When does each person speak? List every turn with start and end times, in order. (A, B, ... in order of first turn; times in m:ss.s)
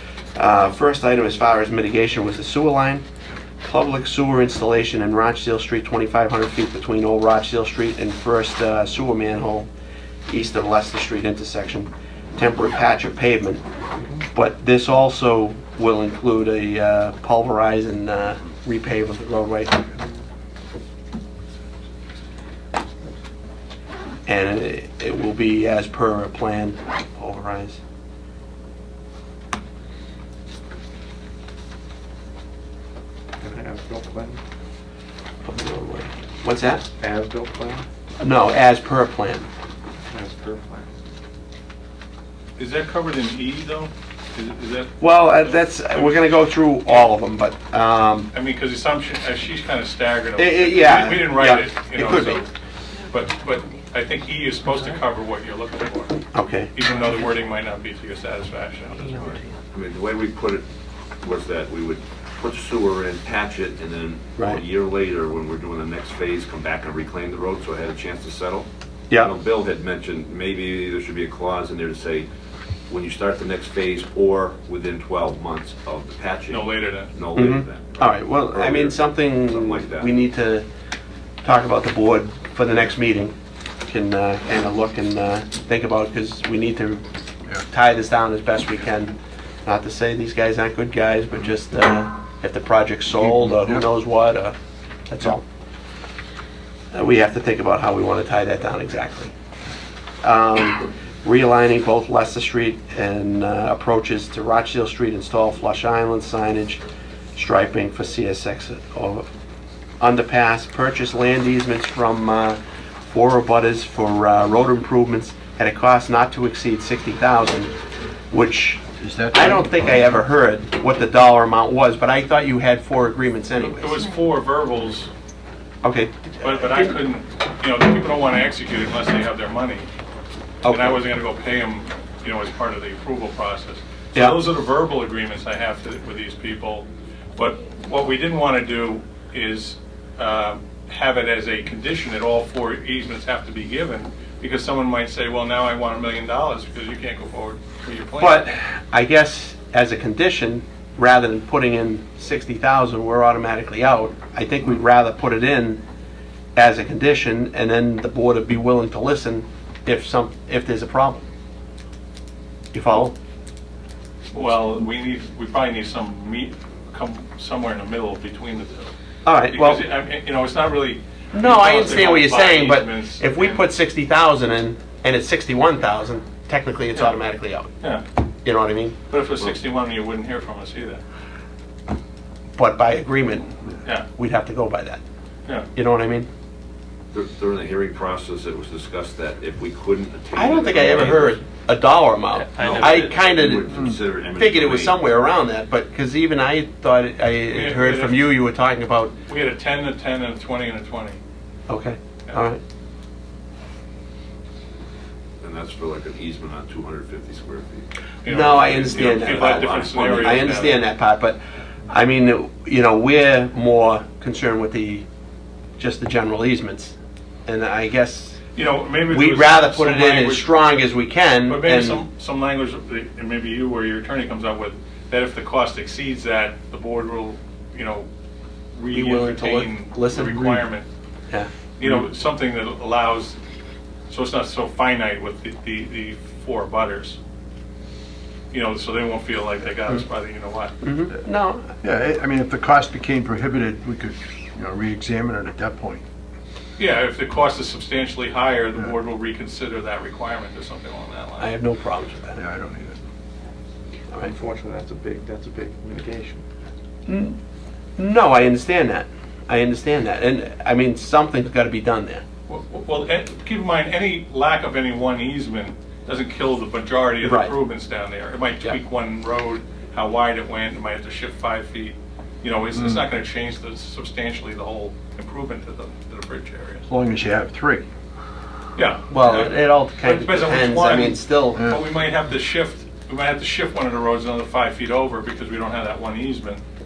0:00.4-0:03.0 A
0:03.6-0:09.7 A
0:10.3-0:13.6 A
0:14.3-0:19.9 A
0:24.3-0:27.8 A
0:33.4-0:34.4 B
0:35.4-0:36.9 A
0:37.0-0:37.8 B
0:38.2-0:39.5 A
0:40.1-0:40.9 B
0:42.6-0:46.2 C
0:45.0-0:48.3 A
0:48.3-0:52.5 C
0:50.4-0:52.4 A
0:53.0-0:53.8 B
0:53.1-0:56.2 C
0:56.3-0:56.7 A
0:56.7-0:59.4 C
0:59.7-1:00.6 D
1:01.2-1:12.3 D
1:04.4-1:04.6 A
1:12.9-1:20.1 D
1:16.5-1:17.2 C
1:17.4-1:20.7 A
1:21.4-1:27.0 A
1:27.6-1:34.6 A
1:33.5-1:33.8 E
1:35.1-1:35.4 A
1:36.9-1:39.3 A
1:40.2-1:46.8 A
1:47.4-1:49.3 A
1:50.0-1:57.7 A
1:58.3-2:04.0 A
1:59.0-1:59.9 E
2:03.6-2:05.1 C
2:05.8-2:07.0 A
2:06.4-2:09.9 C
2:10.6-2:11.0 A
2:10.7-2:28.5 C
2:14.1-2:14.4 A
2:28.2-2:35.8 A
2:36.6-2:41.2 A
2:42.7-2:43.2 A
2:44.3-2:48.9 C
2:49.2-2:49.9 A
2:49.5-2:53.6 C
2:51.3-2:57.7 A
2:58.4-2:59.0 A
2:59.1-3:01.0 C
3:02.6-3:03.5 A
3:04.2-3:05.0 A
3:05.8-3:06.3 A
3:07.1-3:11.4 D
3:10.4-3:19.1 A
3:12.3-3:13.1 C
3:12.6-3:15.0 D
3:17.5-3:18.3 C
3:19.3-3:21.2 C
3:21.7-3:22.6 A
3:25.4-3:27.9 D
3:28.2-3:30.9 C
3:28.3-3:35.1 A
3:28.5-3:30.6 D
3:35.8-3:38.4 A
3:38.6-3:40.5 C
3:39.1-3:42.0 A
3:41.5-3:48.1 C
3:48.8-3:50.9 C
3:48.9-3:50.7 A
3:51.8-3:53.4 C
3:54.1-3:57.2 C
3:58.5-4:00.8 C
4:00.8-4:01.7 A
4:01.8-4:06.0 E
4:06.8-4:11.5 C
4:11.4-4:12.4 A
4:12.4-4:13.0 E
4:14.3-4:16.4 B
4:17.1-4:17.4 A
4:18.0-4:22.2 A
4:22.5-4:36.9 C
4:27.2-4:27.6 A
4:36.9-4:37.9 E
4:38.8-4:46.6 C
4:39.1-4:41.7 A